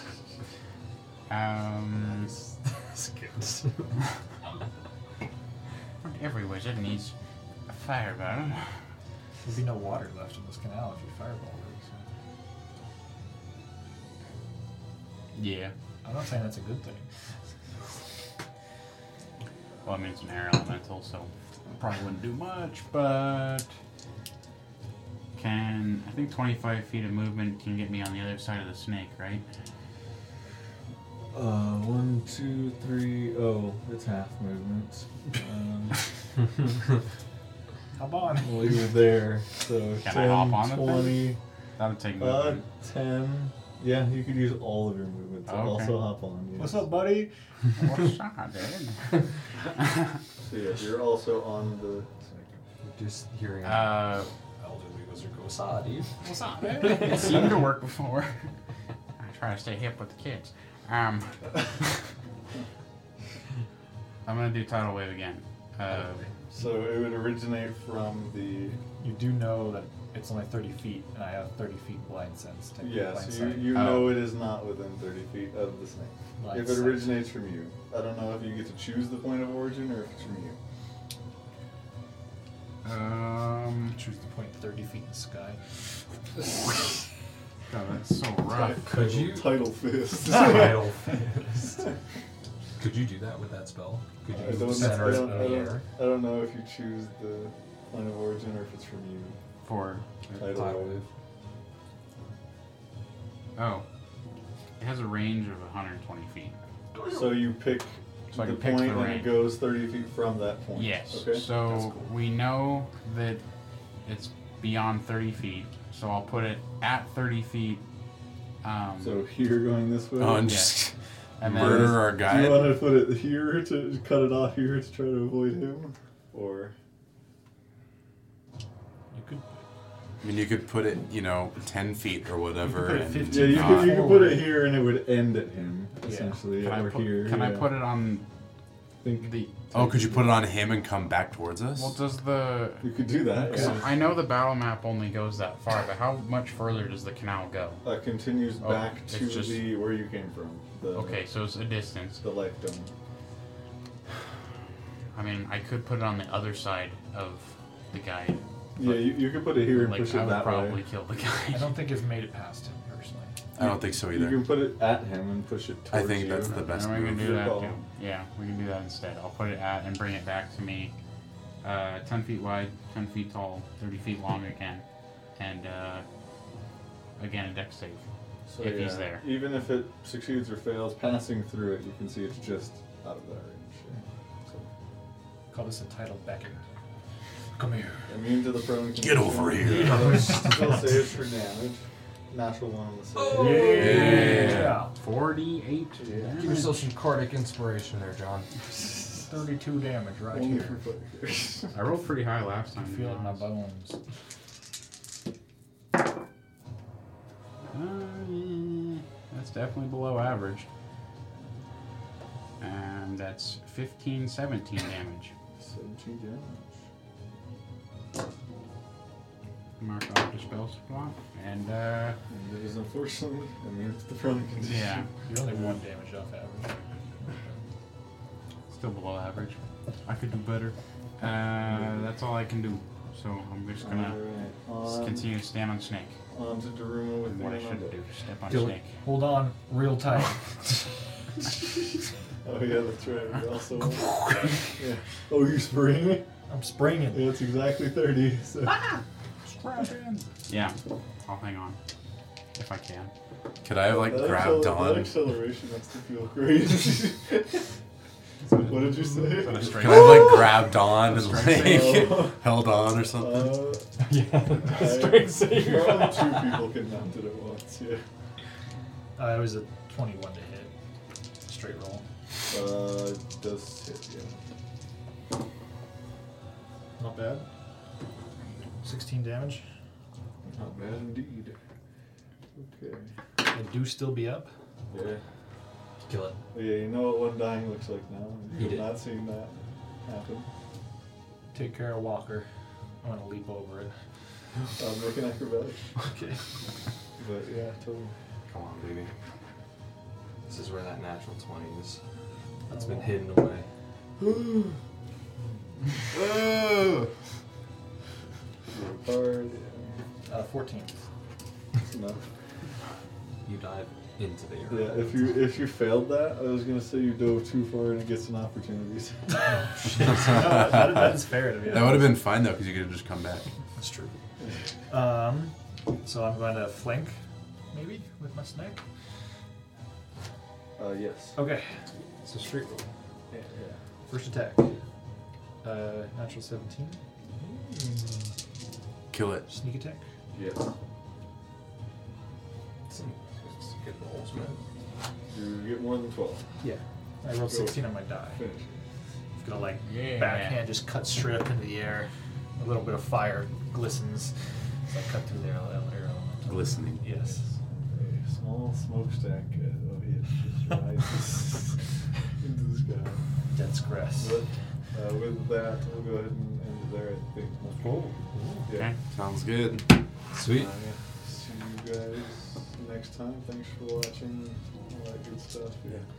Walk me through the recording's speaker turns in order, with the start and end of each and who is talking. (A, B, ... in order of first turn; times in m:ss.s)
0:01.3-0:02.3 A
0:03.4-0:03.7 B
0:06.0-0:07.1 A
0:07.7-0:08.8 A
0:09.4-0:12.0 C
0:15.3-0:15.7 A
0:16.0-0:17.1 C
0:19.8-0:23.7 A
0:25.4-0:29.4 A
0:31.3-0:36.1 D
0:38.0-0:38.9 C
0:38.4-0:41.4 D
0:40.0-0:42.6 A
0:42.2-0:46.9 D
0:45.5-0:46.0 A
0:46.6-0:47.3 C
0:47.8-0:50.2 A
0:50.4-0:52.6 D
0:52.8-0:57.6 B
0:53.6-0:54.3 A
0:56.2-0:58.5 A
0:59.2-1:02.0 A
1:04.2-1:06.3 A
1:06.5-1:08.8 D
1:09.0-1:13.8 C
1:12.8-1:20.6 D
1:13.7-1:14.2 A
1:16.4-1:17.3 C
1:22.8-1:24.0 A
1:23.9-1:25.6 C
1:27.7-1:28.8 A
1:28.5-1:30.9 D
1:28.8-1:31.9 B
1:32.8-1:35.8 B
1:34.3-1:39.4 D
1:34.3-1:35.8 C
1:39.6-1:40.4 A
1:40.3-1:41.0 D
1:40.4-1:41.1 B
1:43.6-1:43.8 A
1:44.8-1:46.6 A
1:47.0-1:47.2 B
1:47.1-1:51.5 D
1:48.3-1:49.4 A
1:50.8-1:53.4 A
1:54.0-1:57.8 A
1:58.6-1:59.2 A
1:59.0-2:00.7 D
2:00.2-2:02.8 E
2:00.4-2:00.8 A
2:01.4-2:02.0 A
2:01.5-2:06.8 D
2:09.1-2:09.6 C
2:10.2-2:14.0 E
2:12.6-2:14.6 C
2:13.3-2:17.7 D
2:16.0-2:16.4 C
2:16.6-2:18.2 A
2:19.0-2:20.4 D
2:19.2-2:19.5 A
2:19.7-2:22.0 E
2:21.8-2:27.8 A
2:22.8-2:24.0 D
2:27.8-2:31.2 D
2:28.6-2:29.7 A
2:30.9-2:32.2 A
2:32.2-2:32.9 D
2:35.1-2:41.8 A
2:38.8-2:40.8 D
2:41.5-2:43.4 C
2:43.6-2:44.5 E
2:43.6-2:47.8 D
2:45.9-2:47.3 E
2:46.5-2:50.9 A
2:51.6-2:54.8 A
2:55.4-2:56.0 A
2:57.2-2:58.0 A
2:58.5-3:04.7 D
2:58.6-2:59.2 A
3:05.5-3:06.6 C
3:07.6-3:08.1 C
3:08.1-3:14.1 D
3:09.0-3:10.2 E
3:09.7-3:10.8 B
3:09.9-3:10.8 C
3:13.2-3:14.3 B
3:13.3-3:14.9 C
3:13.7-3:14.9 E
3:13.8-3:16.9 A
3:16.0-3:16.6 D
3:16.4-3:18.5 B
3:19.2-3:20.8 C
3:20.3-3:21.7 D
3:21.7-3:23.5 A
3:22.8-3:24.0 C
3:27.7-3:30.7 A
3:32.6-3:35.3 A
3:35.6-3:36.7 D
3:39.8-3:42.2 A
3:42.3-3:45.1 D
3:44.7-3:45.1 A
3:45.2-3:47.6 C
3:48.7-3:54.2 A
3:51.6-3:52.1 D
3:53.8-3:55.3 D
3:54.8-3:56.2 A
3:56.3-3:58.0 D
3:57.2-3:58.9 A
3:58.5-3:58.8 B
3:59.0-4:00.6 C
4:02.4-4:06.3 D
4:06.5-4:07.2 C
4:07.1-4:08.9 D
4:08.7-4:11.8 A
4:12.6-4:13.1 A
4:13.6-4:15.2 E
4:13.8-4:17.6 D
4:18.5-4:19.4 C
4:18.6-4:20.1 D
4:19.4-4:22.2 A
4:19.7-4:23.5 E
4:21.6-4:22.5 D
4:23.2-4:23.9 D
4:24.0-4:26.6 B
4:24.6-4:28.0 D
4:29.2-4:30.7 C
4:31.5-4:32.0 C
4:32.5-4:34.4 D
4:37.0-4:37.5 C
4:38.8-4:39.6 C
4:40.4-4:41.6 D
4:42.6-4:43.1 D
4:43.4-4:44.5 C
4:44.9-4:45.2 D
4:46.0-4:46.4 B
4:46.5-4:50.5 D
4:48.6-4:49.0 B
4:51.5-4:52.5 C
4:53.0-4:54.0 C
4:54.8-4:55.8 D
4:56.0-4:56.4 C
4:57.2-4:58.1 D
4:58.5-4:59.1 B
5:00.5-5:02.0 B
5:02.7-5:03.2 C
5:02.7-5:03.7 B
5:08.7-5:10.0 D
5:10.3-5:11.0 C
5:11.8-5:12.2 D
5:13.4-5:15.4 B
5:14.7-5:19.4 D
5:19.3-5:22.2 C
5:20.0-5:23.5 E
5:23.8-5:24.2 C
5:24.9-5:27.2 C
5:27.7-5:28.8 C
5:30.8-5:31.4 D
5:31.4-5:32.9 C
5:33.3-5:33.8 D
5:34.1-5:34.8 C
5:35.6-5:38.3 C
5:39.1-5:39.5 E
5:39.5-5:40.0 C
5:40.3-5:40.7 D
5:42.9-5:44.6 B
5:45.3-5:46.5 D
5:46.6-5:48.4 C
5:47.5-5:48.8 D
5:49.4-5:54.4 C
5:49.8-5:50.6 A
5:54.9-5:57.5 C
5:56.5-5:57.1 E
5:57.2-6:03.2 D
6:03.5-6:04.4 C
6:04.2-6:07.9 D
6:07.8-6:08.7 C
6:08.7-6:08.9 D
6:08.7-6:09.0 A
6:09.1-6:09.9 E
6:10.3-6:10.7 B
6:10.5-6:16.0 D